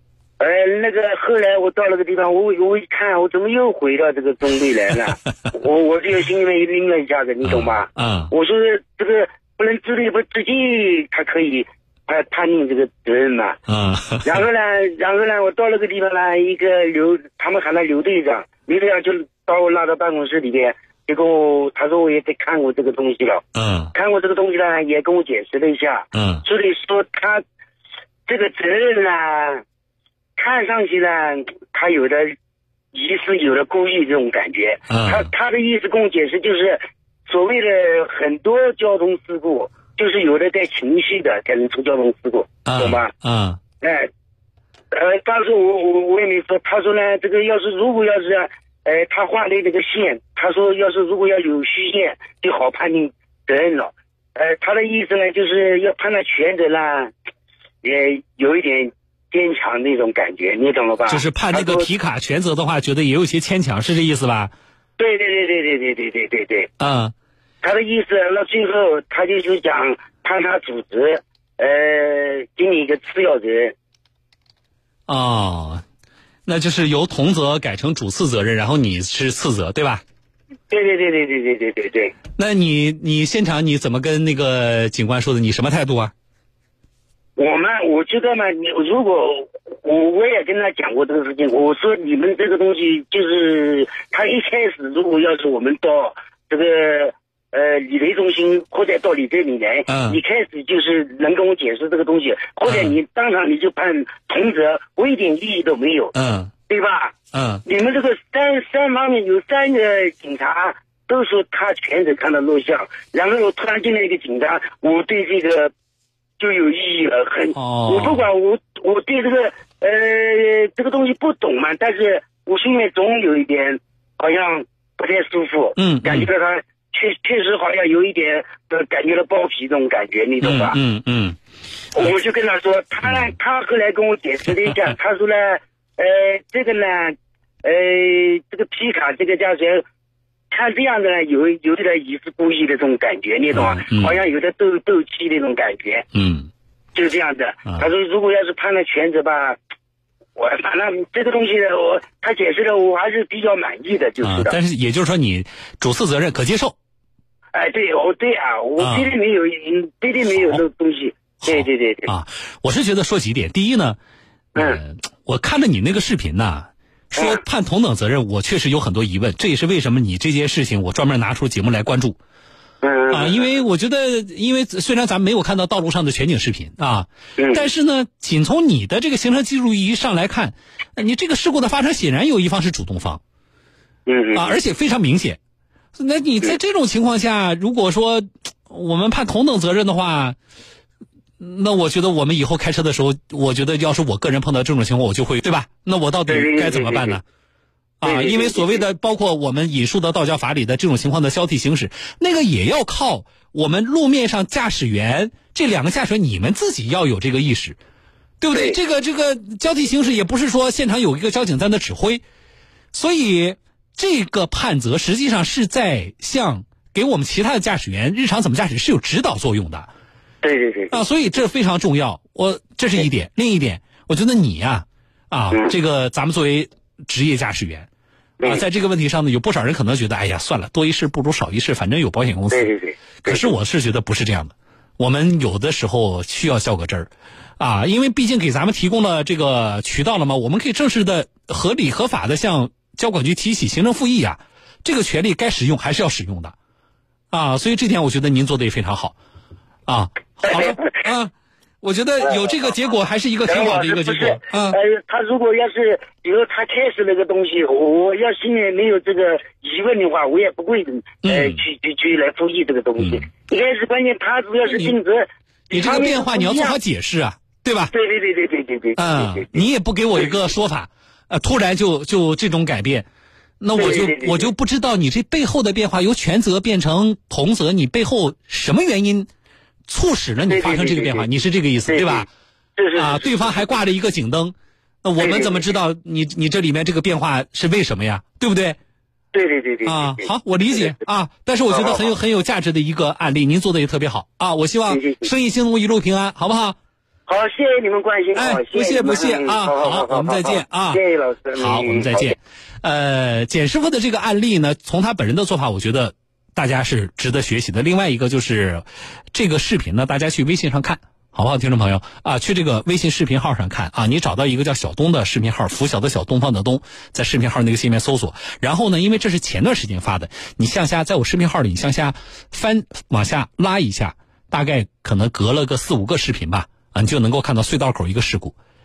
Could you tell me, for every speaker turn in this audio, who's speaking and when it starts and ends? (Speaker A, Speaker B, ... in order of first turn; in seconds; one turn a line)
Speaker A: 0.4-13.6
Speaker B: 7.4-8.3
Speaker B: 13.7-14.3
Speaker A: 14.2-23.4
Speaker B: 23.5-23.9
Speaker A: 23.9-27.4
Speaker B: 26.1-26.4
Speaker A: 28.3-29.6
Speaker A: 30.4-32.3
Speaker A: 32.9-43.1
Speaker B: 34.9-35.3
Speaker B: 42.6-43.6
Speaker A: 43.8-44.1
Speaker A: 44.9-57.1
Speaker A: 57.8-61.9
Speaker B: 61.1-64.5
Speaker A: 65.0-66.7
Speaker B: 66.8-67.1
Speaker A: 67.6-73.7
Speaker B: 75.1-75.8
Speaker B: 76.5-80.0
Speaker A: 80.7-82.1
Speaker B: 82.4-86.1
Speaker A: 87.4-106.1
Speaker B: 99.9-100.2
Speaker B: 102.7-102.9
Speaker B: 106.1-106.5
Speaker A: 106.7-115.7
Speaker B: 107.3-107.6
Speaker A: 116.4-130.8
Speaker B: 117.5-118.2
Speaker B: 125.8-126.3
Speaker B: 130.4-131.4
Speaker A: 131.9-139.8
Speaker A: 140.5-146.1
Speaker B: 143.5-144.1
Speaker B: 146.1-146.5
Speaker A: 146.9-149.6
Speaker A: 150.3-154.6
Speaker B: 154.2-156.8
Speaker A: 157.5-162.1
Speaker B: 158.8-159.1
Speaker B: 161.4-164.0
Speaker A: 164.5-164.8
Speaker B: 164.5-172.2
Speaker A: 172.8-173.6
Speaker B: 173.1-183.2
Speaker A: 177.4-177.7
Speaker A: 184.1-184.6
Speaker B: 184.3-185.4
Speaker B: 186.0-190.3
Speaker B: 191.4-197.2
Speaker A: 196.3-197.2
Speaker B: 198.0-207.8
Speaker A: 198.0-198.8
Speaker B: 208.4-212.2
Speaker A: 208.5-208.8
Speaker B: 212.9-219.9
Speaker A: 220.4-221.0
Speaker B: 220.9-227.9
Speaker B: 228.4-232.7
Speaker A: 232.5-233.5
Speaker B: 233.2-246.5
Speaker B: 247.3-249.2
Speaker B: 249.9-254.8
Speaker A: 250.4-250.9
Speaker A: 253.4-266.8
Speaker B: 261.2-261.6
Speaker B: 263.0-263.2
Speaker B: 264.7-264.9
Speaker B: 265.7-267.9
Speaker A: 267.9-269.6
Speaker B: 268.9-273.1
Speaker B: 273.6-279.3
Speaker A: 273.8-274.5
Speaker B: 279.9-282.3
Speaker A: 280.5-281.3
Speaker A: 281.9-283.7
Speaker B: 282.9-288.8
Speaker A: 285.2-285.7
Speaker A: 289.3-290.9
Speaker B: 289.8-296.8
Speaker A: 291.7-292.1
Speaker A: 294.9-295.3
Speaker A: 297.3-302.3
Speaker B: 298.3-301.0
Speaker B: 301.6-328.6